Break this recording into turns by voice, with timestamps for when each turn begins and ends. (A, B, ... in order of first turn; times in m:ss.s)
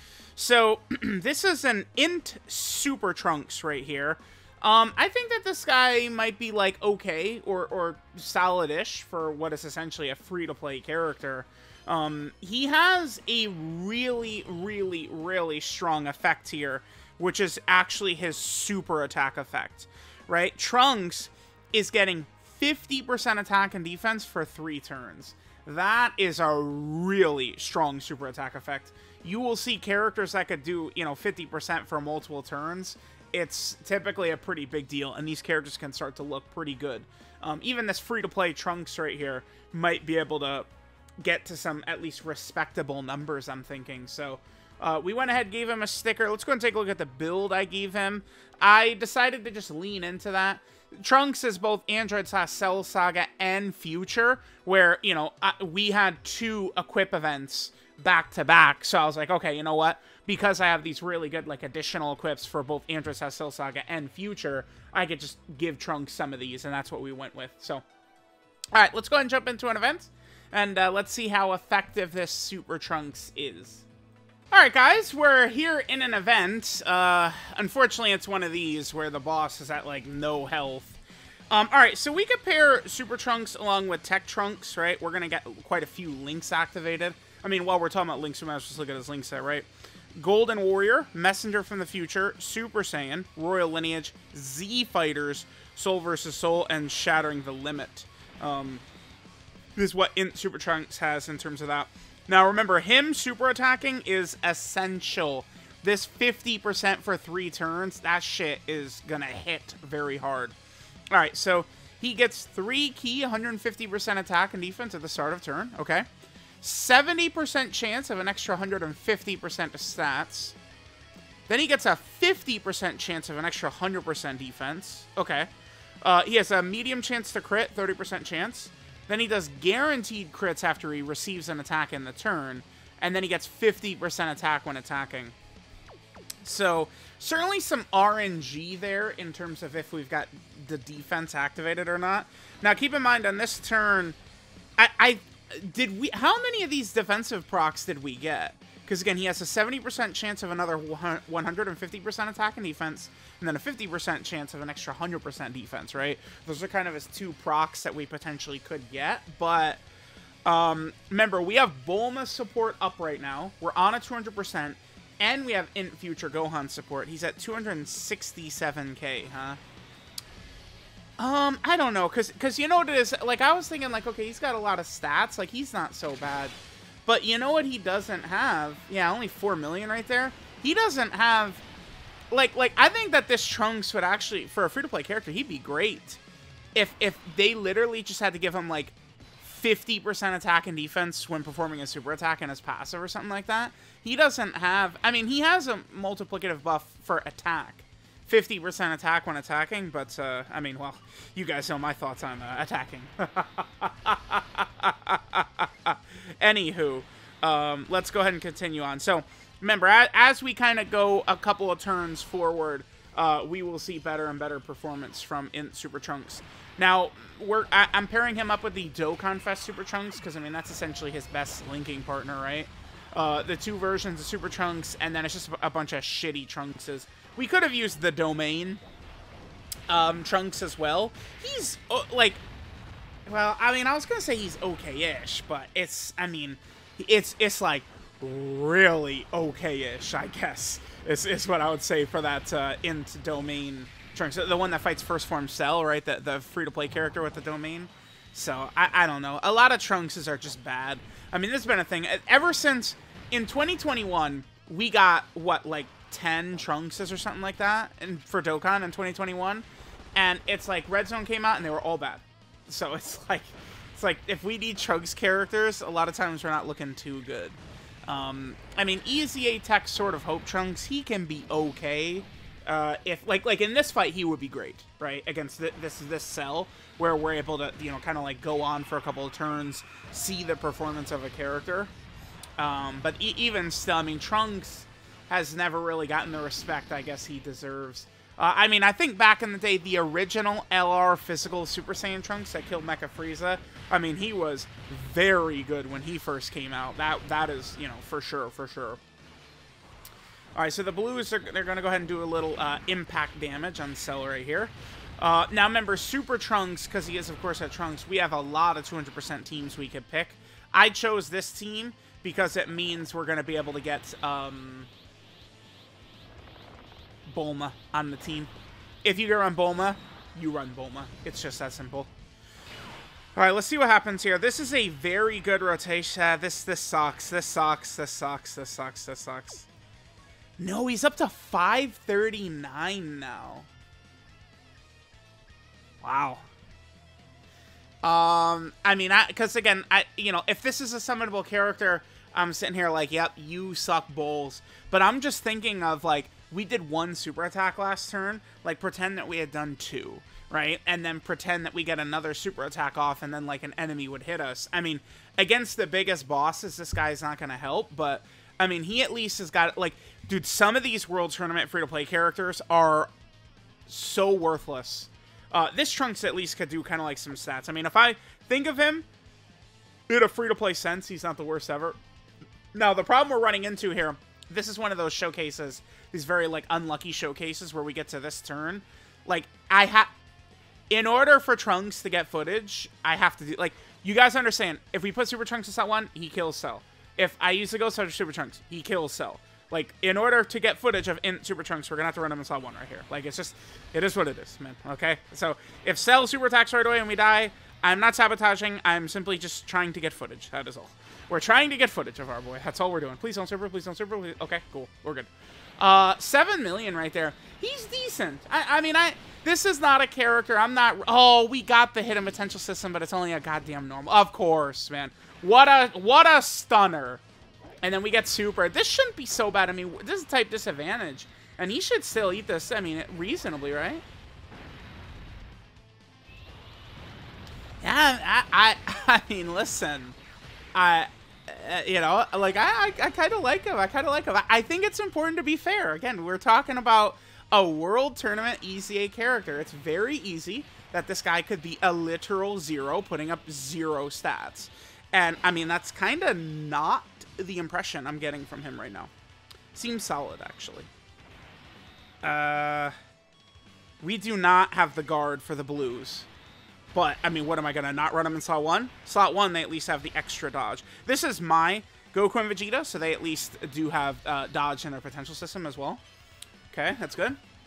0:00.4-0:40.7 A
0:41.2-1:07.8 A
1:08.7-1:13.8 A
1:14.5-1:21.0 A
1:21.5-1:38.8 A
1:39.8-1:50.6 A
1:51.1-1:56.1 A
1:56.6-2:00.6 A
2:01.5-2:05.5 A
2:06.0-2:15.4 A
2:16.4-2:24.2 A
2:24.8-2:39.8 A
2:40.4-2:49.6 A
2:51.2-2:56.6 A
2:57.1-3:01.6 A
3:02.3-3:06.2 A
3:06.8-3:48.8 A
3:49.9-3:52.4 A
3:53.3-4:41.9 A
4:42.6-4:59.0 A
5:00.6-5:14.9 A
5:17.3-5:18.5 A
5:19.0-5:22.1 A
5:23.4-5:29.7 A
5:30.6-5:33.7 A
5:36.0-5:36.5 A
5:38.0-6:03.1 A
6:03.9-6:09.1 A
6:10.1-6:12.0 A
6:12.7-6:20.1 A
6:20.9-6:45.3 A
6:45.8-6:57.2 A
6:57.8-7:04.0 A
7:07.8-7:10.2 A
7:10.8-7:29.1 A
7:29.7-7:30.9 A
7:32.2-7:33.0 A
7:34.0-7:36.3 A
7:36.9-7:46.0 A
7:46.7-7:47.4 A